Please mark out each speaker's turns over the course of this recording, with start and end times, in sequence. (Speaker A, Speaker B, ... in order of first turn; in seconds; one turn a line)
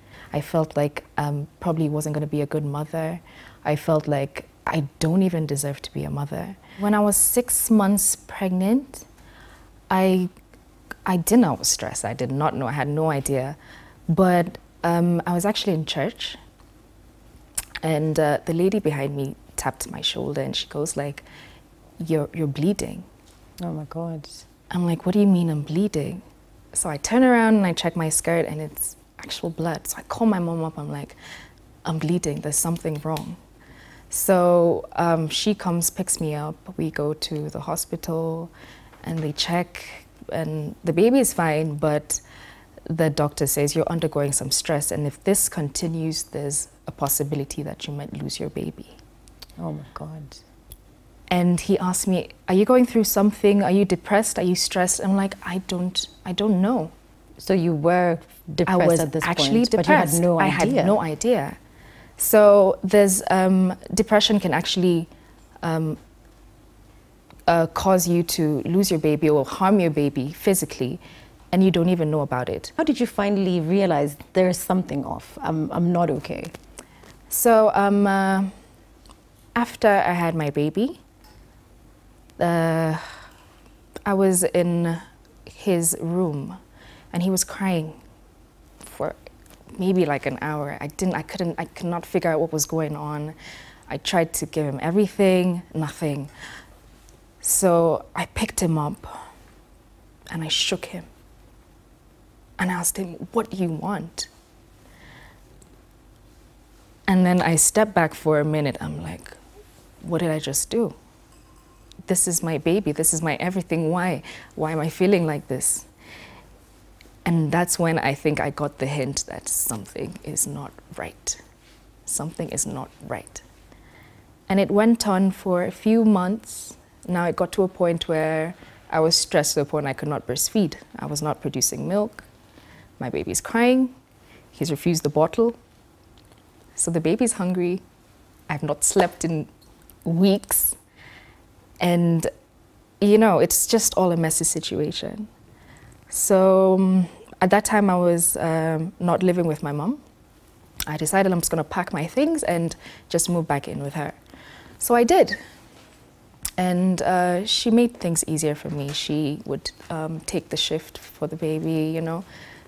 Speaker A: 0.3-9.1
Speaker A: 9.9-10.3
Speaker A: 11.1-13.6
Speaker A: 14.1-16.4
Speaker A: 17.8-21.2
Speaker A: 22.0-23.1
Speaker B: 23.6-24.4
Speaker A: 24.7-26.2
Speaker A: 26.7-31.2
Speaker A: 31.8-33.4
Speaker A: 34.1-38.5
Speaker A: 39.0-42.2
Speaker A: 42.9-49.0
Speaker B: 49.6-50.4
Speaker A: 51.3-56.9
Speaker B: 57.4-61.0
Speaker A: 58.7-61.6
Speaker A: 62.2-65.1
Speaker A: 65.6-66.0
Speaker A: 67.5-71.0
Speaker A: 71.5-72.7
Speaker B: 72.8-76.5
Speaker A: 77.3-78.5
Speaker A: 79.5-81.0
Speaker A: 82.4-83.1
Speaker A: 84.0-86.6
Speaker A: 87.1-88.0
Speaker A: 88.8-89.2
Speaker A: 89.8-93.3
Speaker A: 93.9-96.3
Speaker A: 97.4-99.2
Speaker A: 100.3-101.1
Speaker A: 102.6-104.3
Speaker A: 107.1-109.4
Speaker A: 110.0-111.0
Speaker A: 112.1-115.9
Speaker A: 117.2-121.4
Speaker A: 122.0-123.4
Speaker A: 124.5-132.3
Speaker A: 133.0-133.9
Speaker A: 134.5-135.6
Speaker A: 136.8-137.8
Speaker A: 138.5-139.5
Speaker A: 140.0-140.8
Speaker A: 141.8-142.3
Speaker A: 143.0-145.3
Speaker A: 146.1-150.0
Speaker A: 150.9-154.2
Speaker A: 154.8-155.4
Speaker A: 156.6-162.2